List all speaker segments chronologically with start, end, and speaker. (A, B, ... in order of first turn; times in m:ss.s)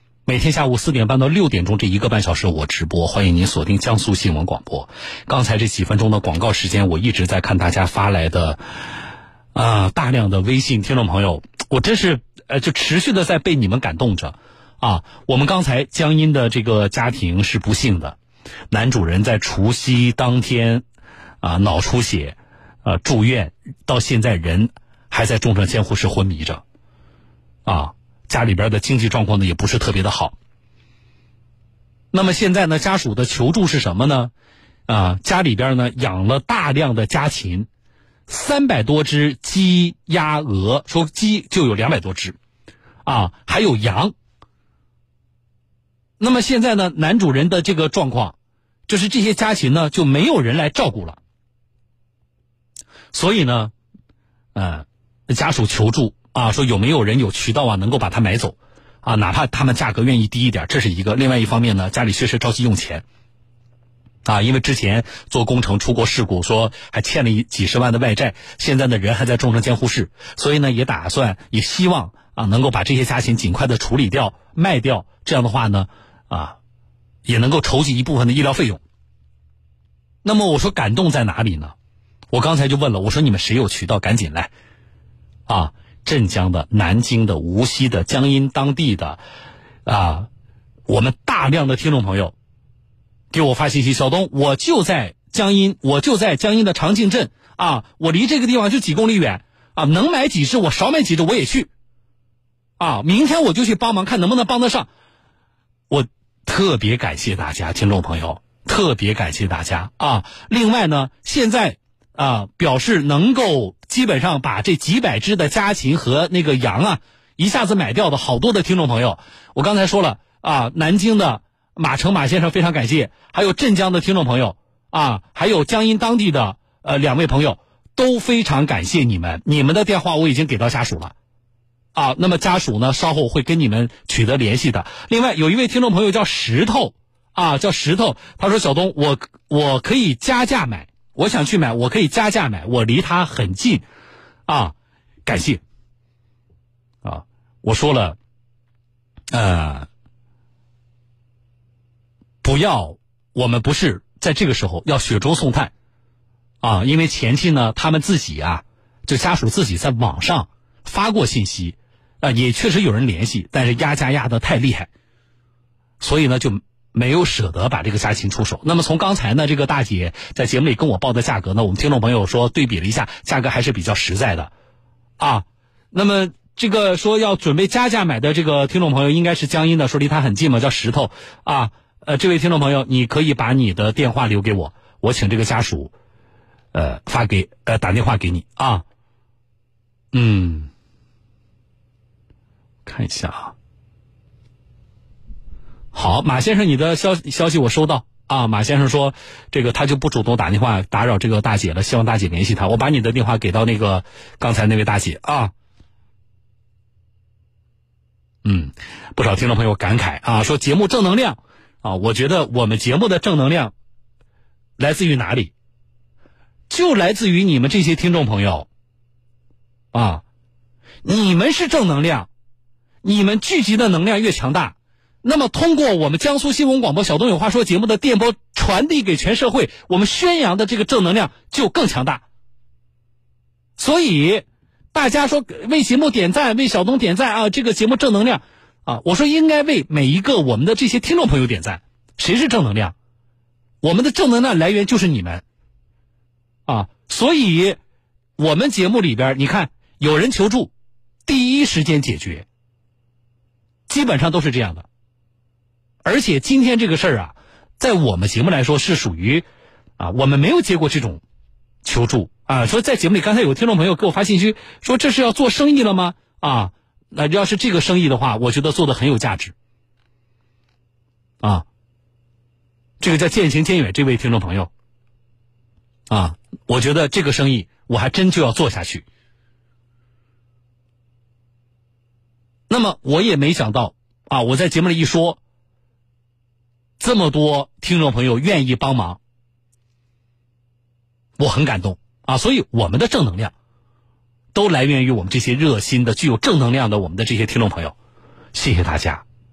0:00.3-0:08.6 A
0:09.5-0:18.2 A
0:18.7-0:20.8 A
0:21.4-0:26.6 A
0:27.6-0:30.3 A
0:32.1-0:34.3 A
0:34.9-0:37.7 A
0:38.3-0:42.4 A
0:43.0-0:44.1 A
0:46.2-0:48.3 A
0:48.9-0:51.2 A
0:53.1-0:53.7 A
0:54.5-1:03.0 A
1:04.2-1:16.6 A
1:17.2-1:18.8 A
1:20.2-1:21.7 A
1:22.3-1:24.5 A
1:25.5-1:29.2 A
1:29.8-1:30.3 A
1:30.9-1:32.3 A
1:33.3-1:41.7 A
1:42.8-1:44.9 A
1:45.9-2:11.1 A
2:11.9-2:23.8 A
2:24.5-2:24.7 A
2:25.2-2:25.6 A
2:27.0-2:28.2 A
2:29.3-2:29.9 A
2:32.4-2:35.7 A
2:36.6-2:44.9 A
2:46.0-2:54.5 A
2:55.2-3:05.9 A
3:06.7-3:08.8 A
3:10.1-3:10.7 A
3:12.8-3:13.5 A
3:15.9-3:25.5 A
3:28.4-3:33.7 A
3:34.8-3:35.5 A
3:36.7-3:38.7 A
3:39.9-3:40.2 A
3:41.0-3:42.3 A
3:43.0-3:52.2 A
3:53.8-4:02.9 A
4:03.8-4:05.4 A
4:06.7-4:07.8 A
4:08.4-4:10.7 A
4:11.2-4:12.4 A
4:13.9-4:14.8 A
4:16.0-4:19.4 A
4:20.0-4:21.2 A
4:21.8-4:29.5 A
4:33.0-4:34.7 A
4:36.1-4:39.0 A
4:42.7-4:45.4 A
4:47.0-4:49.2 A
4:51.4-4:53.5 A
4:54.5-4:57.9 A
4:58.5-4:59.2 A